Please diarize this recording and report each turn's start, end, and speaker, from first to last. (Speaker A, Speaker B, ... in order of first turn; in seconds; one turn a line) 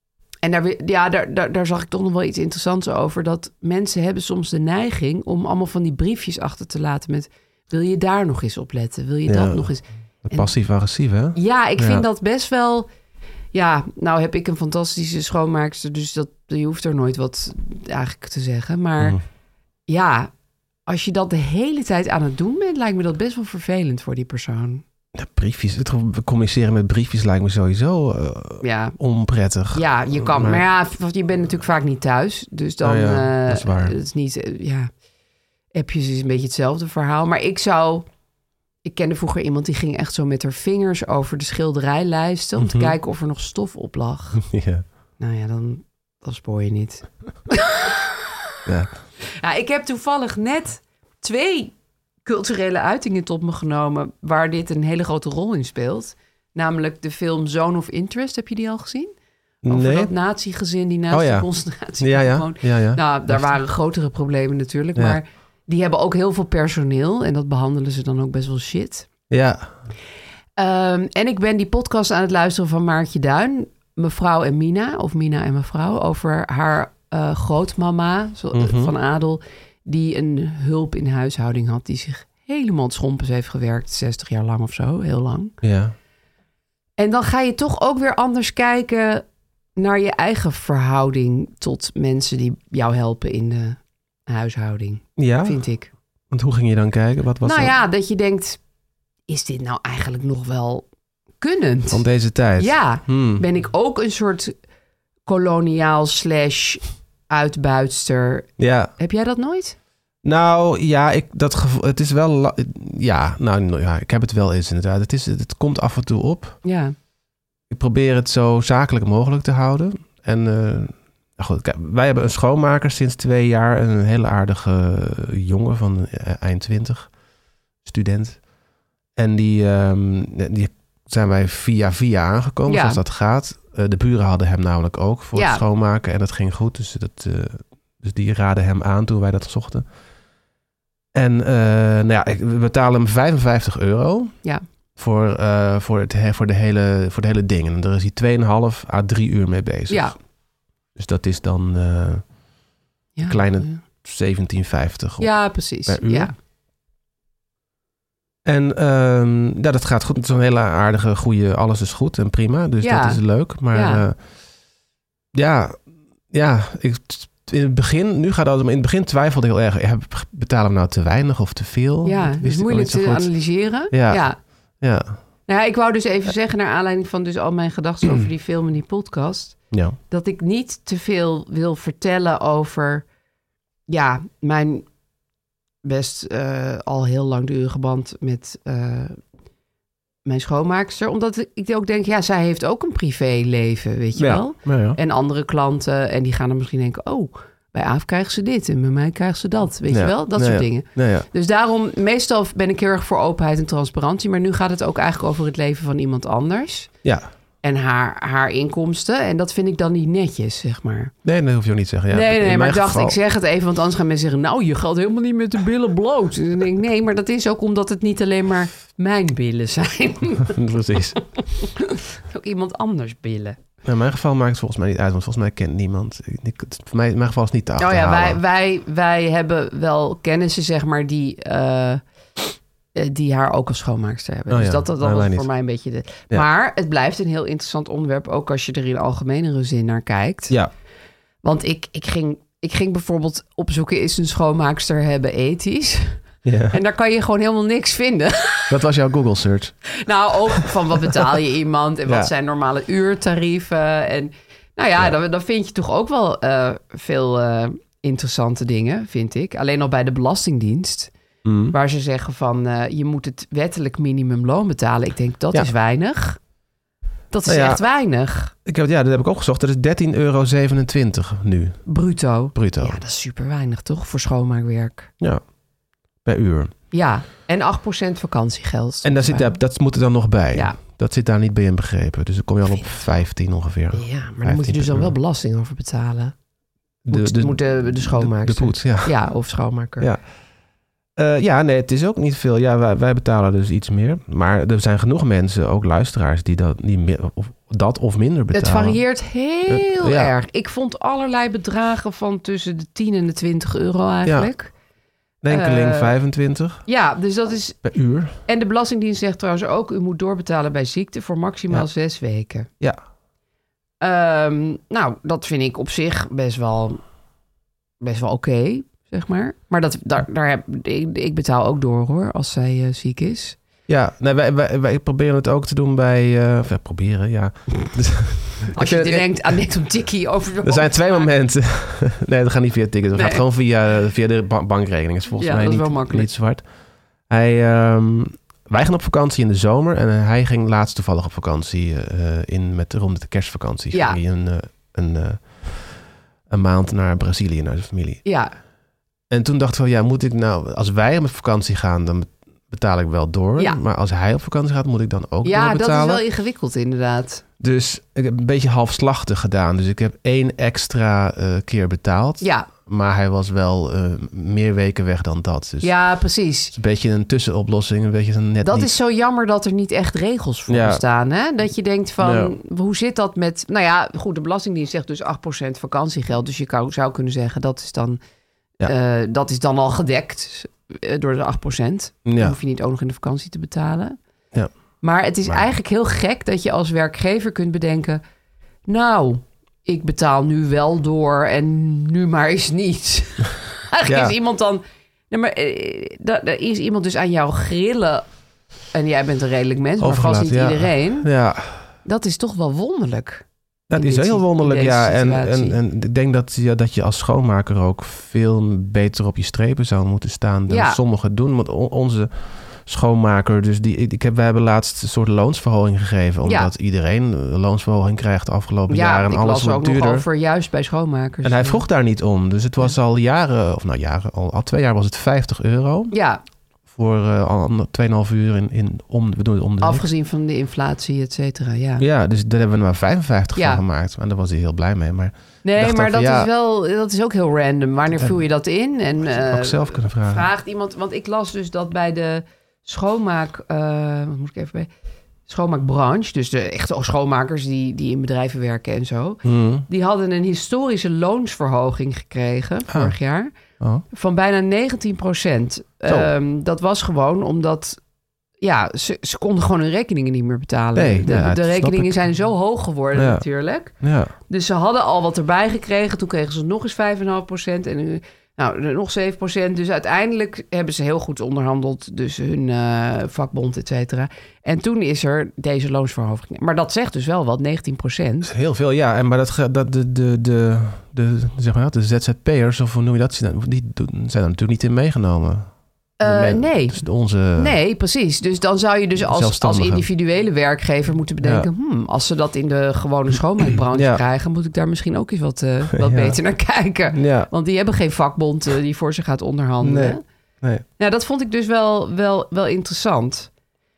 Speaker A: 0.4-10.5
Speaker B: 9.3-9.7
Speaker B: 10.2-12.0
Speaker A: 11.3-12.9
Speaker A: 13.5-19.2
Speaker A: 19.9-20.3
Speaker A: 20.9-24.8
Speaker B: 25.1-30.6
Speaker A: 28.6-29.0
Speaker A: 29.7-34.9
Speaker B: 32.8-34.0
Speaker A: 35.7-38.1
Speaker A: 38.9-44.4
Speaker B: 42.6-43.0
Speaker B: 44.4-44.8
Speaker A: 45.2-48.3
Speaker B: 48.7-48.9
Speaker A: 49.4-51.7
Speaker A: 52.2-59.1
Speaker B: 59.6-60.1
Speaker A: 59.7-69.1
Speaker B: 61.1-61.5
Speaker B: 62.0-63.5
Speaker B: 69.3-69.8
Speaker A: 70.6-85.5
Speaker B: 78.5-78.9
Speaker B: 85.6-86.0
Speaker A: 87.0-89.2
Speaker A: 89.8-95.9
Speaker B: 95.2-95.6
Speaker B: 96.3-97.8
Speaker A: 97.4-98.6
Speaker A: 99.3-100.9
Speaker A: 101.4-102.1
Speaker B: 101.9-103.5
Speaker A: 102.6-104.5
Speaker A: 105.3-109.8
Speaker B: 108.6-108.9
Speaker B: 110.2-116.6
Speaker A: 116.6-117.0
Speaker B: 117.7-127.1
Speaker B: 127.8-128.4
Speaker B: 129.2-139.9
Speaker A: 132.7-133.0
Speaker A: 135.3-135.6
Speaker B: 141.1-144.3
Speaker B: 145.0-150.2
Speaker A: 149.9-150.2
Speaker B: 151.0-152.3
Speaker A: 153.2-153.8
Speaker B: 153.3-156.3
Speaker A: 155.2-156.3
Speaker B: 158.4-164.2
Speaker A: 162.8-164.0
Speaker B: 165.3-175.2
Speaker A: 172.0-174.4
Speaker A: 175.5-179.6
Speaker B: 179.7-180.0
Speaker A: 180.1-183.1
Speaker A: 183.9-184.8
Speaker A: 185.8-189.2
Speaker A: 190.2-206.9
Speaker B: 194.2-195.0
Speaker B: 199.9-201.3
Speaker A: 207.6-211.1
Speaker B: 211.2-213.2
Speaker A: 212.1-220.6
Speaker B: 220.4-221.2
Speaker A: 221.5-223.6
Speaker B: 223.8-228.4
Speaker A: 227.8-232.0
Speaker A: 232.9-240.6
Speaker B: 234.5-235.5
Speaker A: 241.4-248.8
Speaker B: 246.4-246.8
Speaker B: 248.7-249.8
Speaker A: 249.9-261.1
Speaker B: 261.4-261.8
Speaker A: 261.7-266.4
Speaker A: 267.3-268.5
Speaker B: 267.5-267.8
Speaker B: 268.7-271.8
Speaker A: 271.9-275.1
Speaker B: 272.5-273.0
Speaker B: 276.2-276.7
Speaker A: 276.9-279.5
Speaker B: 279.0-285.1
Speaker A: 282.7-283.2
Speaker A: 283.9-286.3
Speaker B: 287.1-289.2
Speaker A: 287.1-290.1
Speaker B: 291.2-299.0
Speaker A: 298.5-304.7
Speaker B: 299.7-300.3
Speaker B: 304.2-304.5
Speaker B: 305.4-306.8
Speaker A: 305.5-306.1
Speaker A: 306.9-307.8
Speaker B: 307.8-308.4
Speaker A: 308.4-312.7
Speaker A: 314.0-317.0
Speaker A: 318.0-323.6
Speaker B: 323.9-329.4
Speaker A: 328.7-331.2
Speaker B: 330.6-336.6
Speaker A: 333.1-333.4
Speaker A: 335.4-336.3
Speaker B: 337.3-348.2
Speaker A: 343.9-344.2
Speaker A: 348.2-348.5
Speaker B: 349.3-356.2
Speaker A: 355.4-357.4
Speaker B: 357.6-365.9
Speaker A: 362.4-362.7
Speaker A: 365.8-366.7
Speaker B: 366.7-368.9
Speaker A: 368.6-378.2
Speaker B: 370.7-371.0
Speaker B: 372.2-372.6
Speaker A: 378.8-384.2
Speaker B: 382.2-382.6
Speaker A: 385.0-388.2
Speaker A: 388.9-398.3
Speaker B: 394.1-394.4
Speaker A: 398.9-401.3
Speaker B: 400.0-401.8
Speaker A: 402.1-405.8
Speaker B: 403.9-420.3
Speaker A: 410.7-411.0
Speaker A: 416.4-416.7
Speaker A: 418.9-421.9
Speaker B: 421.4-426.1
Speaker A: 426.1-426.4
Speaker B: 426.9-430.1
Speaker A: 429.8-432.1
Speaker B: 432.0-436.5
Speaker A: 433.6-433.8
Speaker A: 435.6-444.9
Speaker B: 439.3-440.5
Speaker A: 445.5-453.5
Speaker B: 449.4-449.9
Speaker B: 452.9-453.1
Speaker A: 454.1-458.0
Speaker B: 456.1-456.3
Speaker A: 458.6-463.9
Speaker B: 460.9-462.1
Speaker B: 463.1-463.4
Speaker B: 464.0-464.3
Speaker A: 464.5-478.5
Speaker B: 478.4-485.7
Speaker A: 486.2-500.2
Speaker B: 486.2-487.8
Speaker B: 489.2-490.1
Speaker B: 491.4-491.7
Speaker B: 493.9-494.2
Speaker B: 496.0-496.4
Speaker B: 497.1-497.5
Speaker B: 499.8-500.9
Speaker A: 501.0-503.5